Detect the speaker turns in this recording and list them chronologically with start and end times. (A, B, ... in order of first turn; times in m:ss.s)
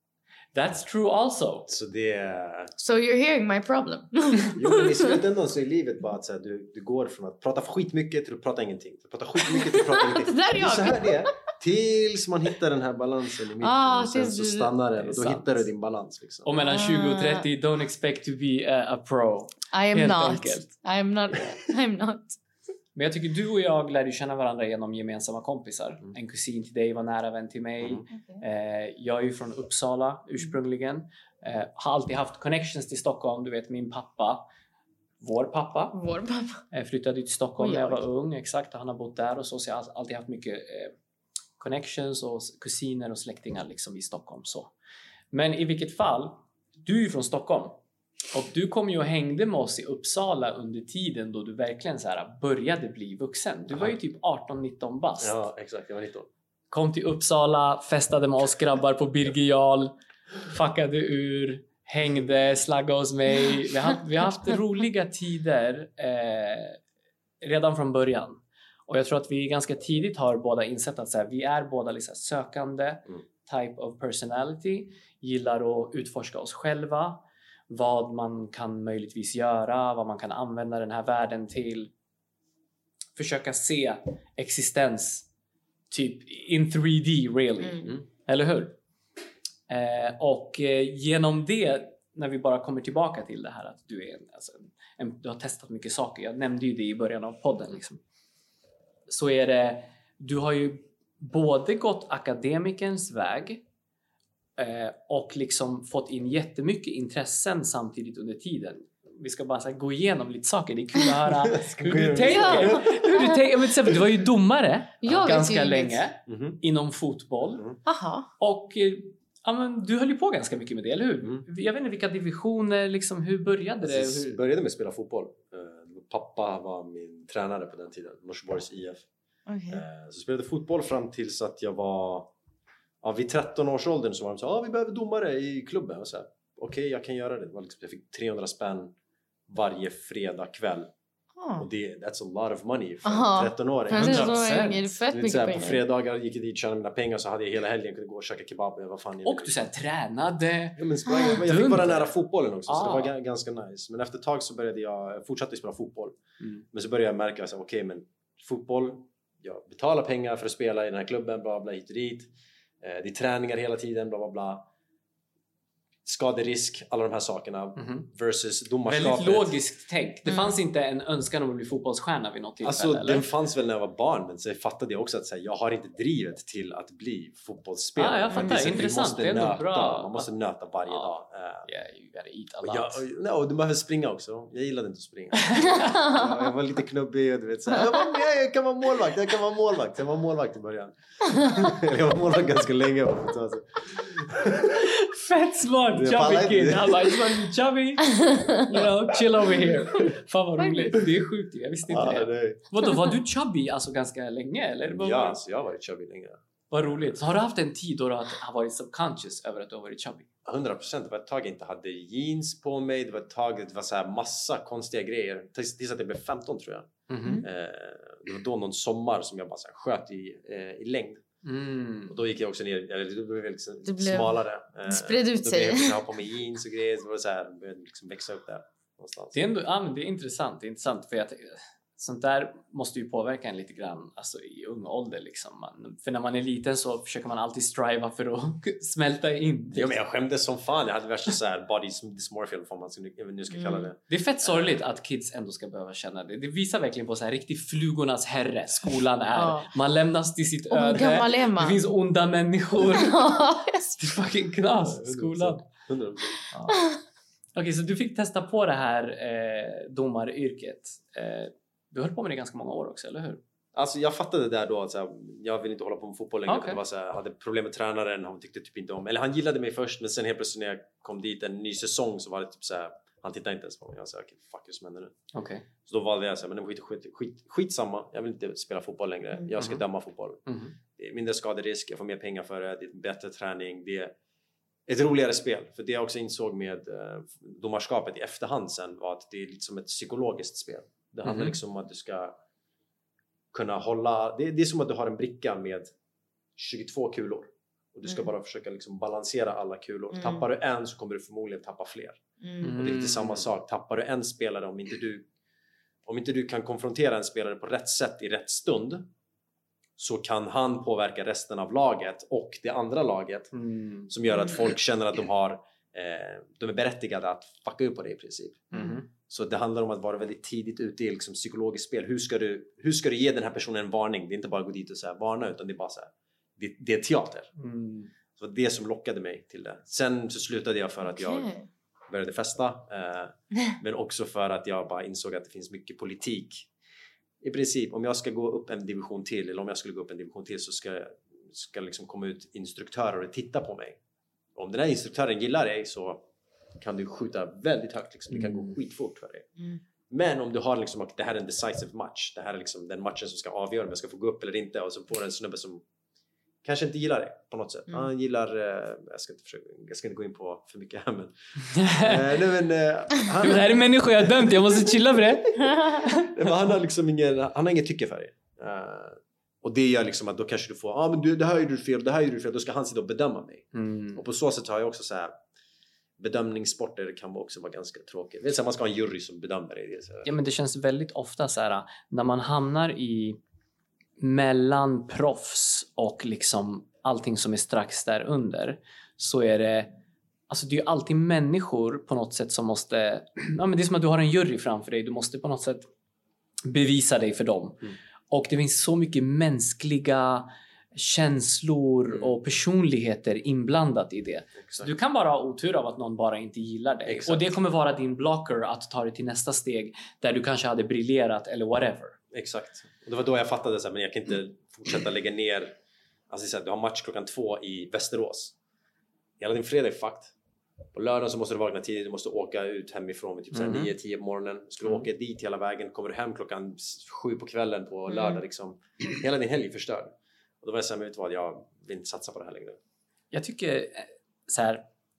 0:00.5-0:01.7 A
0:01.7-0:02.7 B
0:02.8-0:05.2 C
0:04.5-0:16.5 B
0:09.5-0:11.4 C
0:13.6-0:14.7 C
0:15.0-0:15.6 A
0:16.4-0:20.7 A
0:16.5-0:17.4 C
0:19.7-0:22.4 C
0:22.9-0:34.4 A
0:35.2-0:36.0 A
0:35.9-0:36.6 C
0:36.7-0:40.9 A
0:37.6-0:38.0 C
0:41.6-0:44.7 A
0:45.3-0:47.8 A
0:48.3-0:55.4 A
0:53.7-0:54.0 B
0:55.2-0:56.3 B
0:56.7-1:06.8 A
1:07.4-1:21.9 A
1:23.2-1:25.3 A
1:25.9-1:28.8 A
1:29.7-1:38.0 A
1:39.1-1:43.6 A
1:44.6-1:57.7 A
1:51.4-1:53.1 B
1:52.2-1:53.4 C
1:55.0-1:56.0 C
1:56.3-1:56.6 B
1:57.8-1:58.3 C
1:58.4-2:04.4 A
2:03.8-2:09.0 B
2:09.5-2:09.8 C
2:09.7-2:12.3 B
2:13.0-2:18.9 B
2:19.5-2:20.9 B
2:21.4-2:21.6 C
2:21.6-2:29.6 B
2:23.0-2:25.8 C
2:23.9-2:24.9 A
2:29.2-2:32.1 A
2:30.8-2:36.2 B
2:32.7-2:33.1 A
2:36.7-2:44.6 B
2:46.0-2:49.5 B
2:47.8-2:48.1 A
2:48.8-2:53.3 A
2:50.3-2:50.5 C
2:52.6-3:01.7 B
2:58.0-3:00.3 A
3:01.7-3:03.0 A
3:02.6-3:14.9 B
3:05.4-3:05.9 A
3:14.7-3:25.4 A
3:15.9-3:17.2 B
3:20.6-3:20.9 C
3:21.9-3:22.6 B
3:24.8-3:26.4 B
3:26.7-3:30.3 A
3:30.4-3:41.2 B
3:37.1-3:37.4 A
3:41.4-3:42.1 A
3:42.1-3:49.4 B
3:43.8-3:46.0 C
3:49.3-3:59.9 A
3:59.7-4:04.8 B
4:03.5-4:03.9 C
4:04.1-4:13.4 A
4:09.3-4:09.7 C
4:10.7-4:11.8 C
4:12.8-4:14.0 C
4:14.0-4:15.6 A
4:14.8-4:16.4 B
4:16.5-4:16.9 A
4:16.7-4:17.0 C
4:17.5-4:23.4 A
4:23.7-4:35.2 B
4:26.5-4:26.8 A
4:35.3-4:35.7 A
4:35.8-4:44.1 B
4:40.5-4:40.7 A
4:44.9-4:52.3 B
4:51.2-4:51.5 A
4:53.5-4:55.9 B
4:56.6-5:02.2 B
5:00.1-5:00.4 C
5:02.4-5:02.7 C
5:02.6-5:03.5 A
5:02.7-5:05.3 B
5:06.0-5:09.1 B
5:10.0-5:13.5 B
5:13.5-5:14.1 A
5:14.1-5:18.7 B
5:18.7-5:19.0 A
5:19.3-5:27.5 B
5:27.6-5:28.1 A
5:28.4-5:31.5 B
5:31.1-5:31.7 C
5:32.1-5:36.7 B
5:37.4-5:44.0 B
5:44.5-5:46.2 B
5:46.8-5:49.5 B
5:48.3-5:48.7 A
5:50.1-5:55.8 B
5:56.6-6:05.0 B
6:01.7-6:02.2 A
6:03.4-6:06.3 A
6:05.5-6:15.3 B
6:13.7-6:14.2 A
6:16.2-6:20.3 B
6:20.2-6:23.4 A
6:24.2-6:29.9 A
6:30.5-6:35.9 A
6:36.6-6:52.2 A
6:44.6-6:44.9 B
6:47.0-6:47.5 B
6:52.3-6:55.7 B
6:56.3-6:58.5 B
6:59.4-7:00.3 B
7:00.9-7:12.8 B
7:03.5-7:03.9 A
7:08.1-7:08.4 C
7:13.3-7:14.8 A